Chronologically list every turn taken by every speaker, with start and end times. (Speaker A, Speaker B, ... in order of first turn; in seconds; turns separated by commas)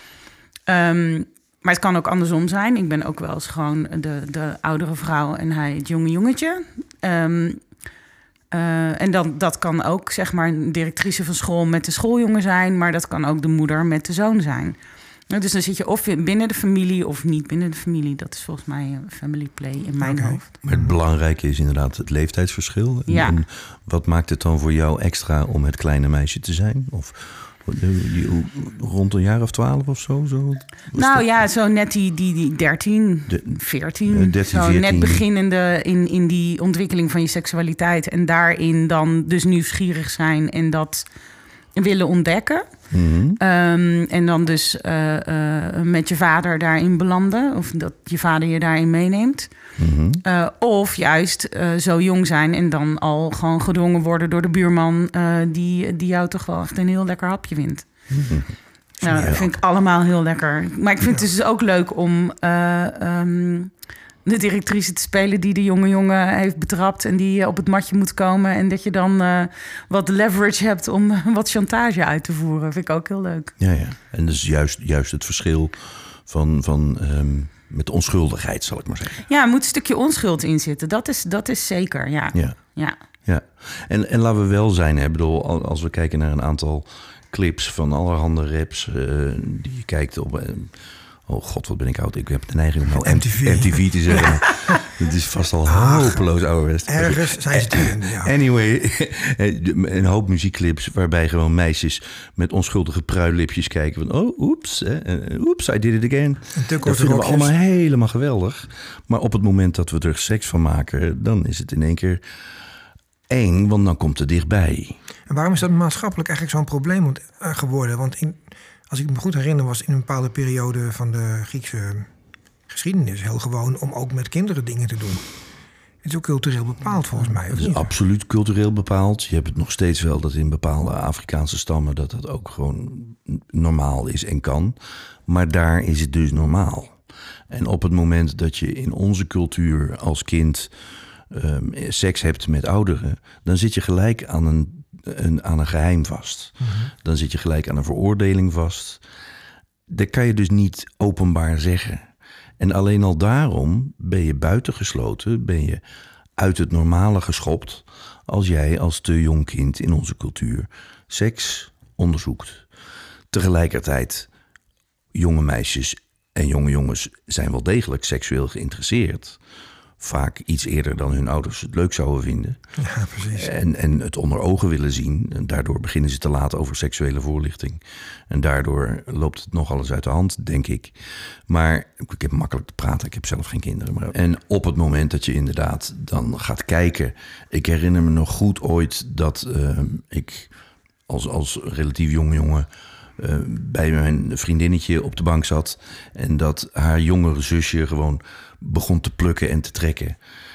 Speaker A: 0.7-7.7, Speaker A: 8.5-14.8, Speaker A: 15.3-20.5, Speaker B: 20.0-20.9, Speaker C: 20.6-31.4, Speaker A: 23.1-23.4, Speaker A: 30.9-41.0, Speaker C: 33.3-35.2, Speaker A: 41.7-42.9, Speaker C: 42.9-43.4, Speaker A: 43.4-49.5, Speaker C: 49.8-50.2, Speaker A: 50.2-57.9, Speaker C: 58.1-59.5, Speaker A: 59.0-63.7, Speaker A: 64.2-73.5, Speaker C: 73.6-79.2, Speaker A: 79.3-82.9, Speaker C: 82.3-112.2, Speaker B: 93.0-94.3, Speaker A: 94.1-94.4, Speaker B: 95.7-96.2, Speaker B: 96.9-98.3, Speaker B: 106.5-107.5, Speaker C: 113.3-115.0, Speaker B: 115.3-122.1, Speaker B: 122.7-125.2, Speaker B: 126.0-127.9, Speaker C: 127.5-134.8, Speaker C: 135.3-149.0, Speaker B: 146.6-146.9, Speaker C: 149.9-152.1, Speaker C: 152.6-155.8, Speaker C: 156.4-162.7, Speaker C: 163.3-164.3, Speaker C: 165.1-169.4, Speaker C: 170.0-172.6, Speaker B: 172.8-173.5, Speaker C: 173.2-190.5, Speaker C: 191.1-192.7, Speaker C: 193.2-200.2